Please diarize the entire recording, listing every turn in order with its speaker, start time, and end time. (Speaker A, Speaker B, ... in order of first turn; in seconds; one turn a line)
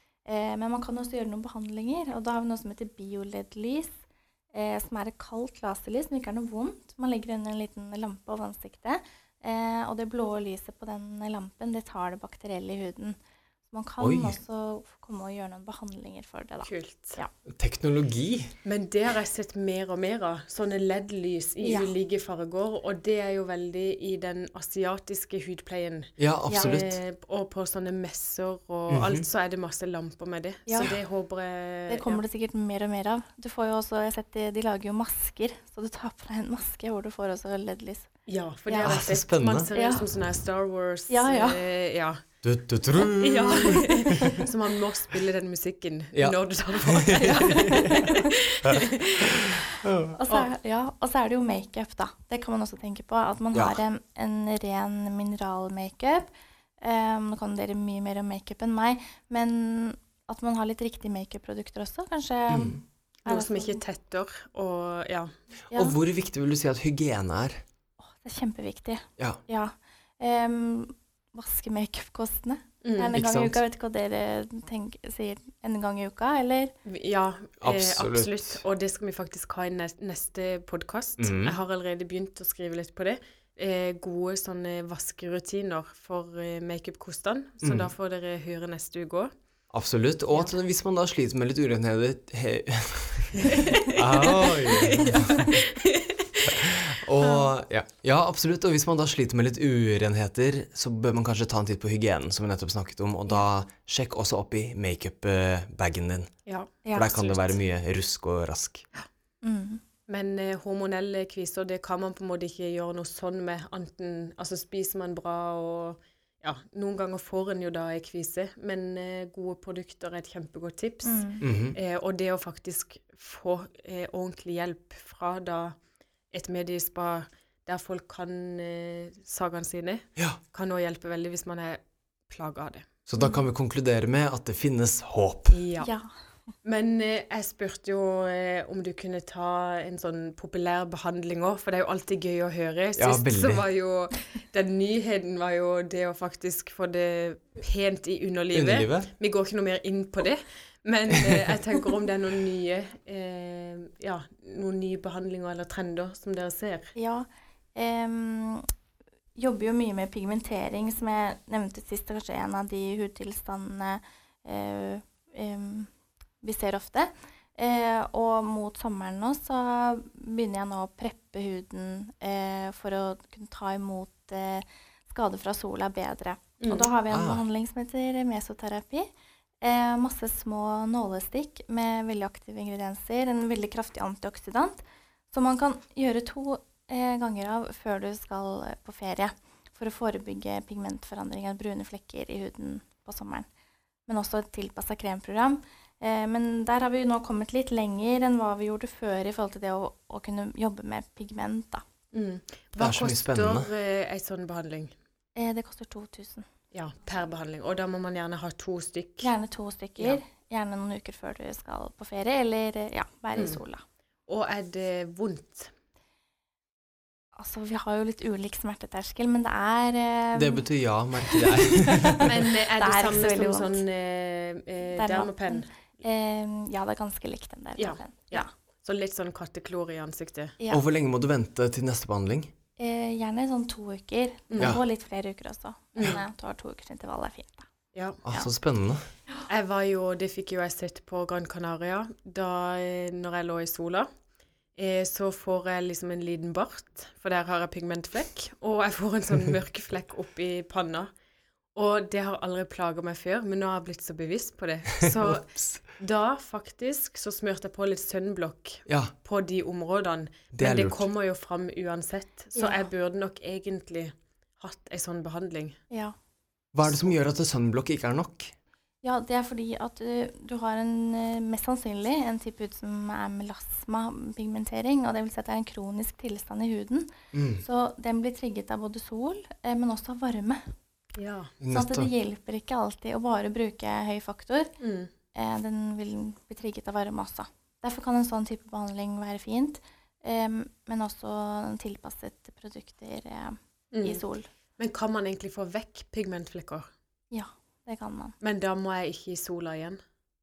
Speaker A: 0.3-3.9
Speaker A: 4.5-13.2
Speaker A: 13.7-17.3
Speaker B: 14.0-14.4
Speaker C: 16.6-17.2
Speaker B: 17.5-18.5
Speaker C: 18.6-32.2
Speaker A: 21.6-21.9
Speaker B: 26.2-27.0
Speaker A: 26.5-26.8
Speaker B: 28.9-29.2
Speaker A: 30.7-30.9
Speaker A: 31.9-38.1
Speaker C: 38.3-42.2
Speaker A: 38.7-39.0
Speaker B: 38.8-39.7
Speaker A: 39.7-40.1
Speaker A: 41.1-41.6
Speaker B: 42.4-44.4
Speaker C: 43.0-49.6
Speaker A: 43.8-44.3
Speaker B: 46.1-50.1
Speaker A: 47.5-48.3
Speaker A: 50.1-63.8
Speaker B: 53.5-53.8
Speaker B: 62.5-62.8
Speaker C: 63.3-65.3
Speaker B: 65.7-67.6
Speaker A: 68.0-76.7
Speaker C: 72.8-73.2
Speaker B: 73.1-73.6
Speaker C: 76.8-89.3
Speaker B: 77.6-78.6
Speaker B: 81.2-81.5
Speaker B: 87.6-87.9
Speaker B: 89.7-95.6
Speaker C: 93.4-96.5
Speaker B: 96.5-106.3
Speaker C: 106.5-107.6
Speaker A: 106.8-107.1
Speaker B: 106.9-108.9
Speaker A: 109.4-109.8
Speaker C: 110.1-125.8
Speaker A: 121.0-121.4
Speaker B: 121.4-121.8
Speaker C: 126.3-132.9
Speaker B: 133.1-135.6
Speaker C: 135.5-135.9
Speaker A: 135.8-136.1
Speaker C: 136.6-156.9
Speaker B: 143.0-143.7
Speaker B: 148.5-149.1
Speaker A: 157.0-158.7
Speaker A: 159.4-165.9
Speaker A: 166.4-179.1
Speaker C: 176.6-176.9
Speaker B: 177.1-177.4
Speaker A: 179.6-184.8
Speaker A: 185.3-193.5
Speaker A: 194.1-201.8
Speaker C: 202.1-204.9
Speaker B: 202.8-203.7
Speaker A: 205.3-206.5
Speaker C: 206.7-209.3
Speaker A: 209.2-213.8
Speaker C: 213.4-213.6
Speaker C: 214.3-215.7
Speaker A: 217.3-220.6
Speaker B: 220.3-222.4
Speaker A: 221.3-223.8
Speaker C: 222.2-225.7
Speaker A: 224.9-228.5
Speaker C: 227.8-230.6
Speaker B: 230.7-232.5
Speaker A: 232.8-237.7
Speaker C: 234.5-234.8
Speaker C: 237.9-238.2
Speaker B: 238.2-239.1
Speaker C: 239.5-244.1
Speaker C: 244.8-251.1
Speaker C: 251.8-265.8
Speaker B: 255.0-255.8
Speaker B: 258.9-259.1
Speaker B: 260.5-261.1
Speaker A: 262.6-262.9
Speaker A: 265.9-266.2
Speaker B: 266.7-268.5
Speaker A: 269.0-280.6
Speaker B: 277.3-277.6
Speaker C: 281.2-281.6
Speaker B: 281.6-282.1
Speaker A: 281.7-284.7
Speaker C: 284.8-285.1
Speaker A: 285.3-294.5
Speaker C: 293.9-294.2
Speaker C: 294.8-296.9
Speaker A: 297.3-298.4
Speaker C: 298.4-300.0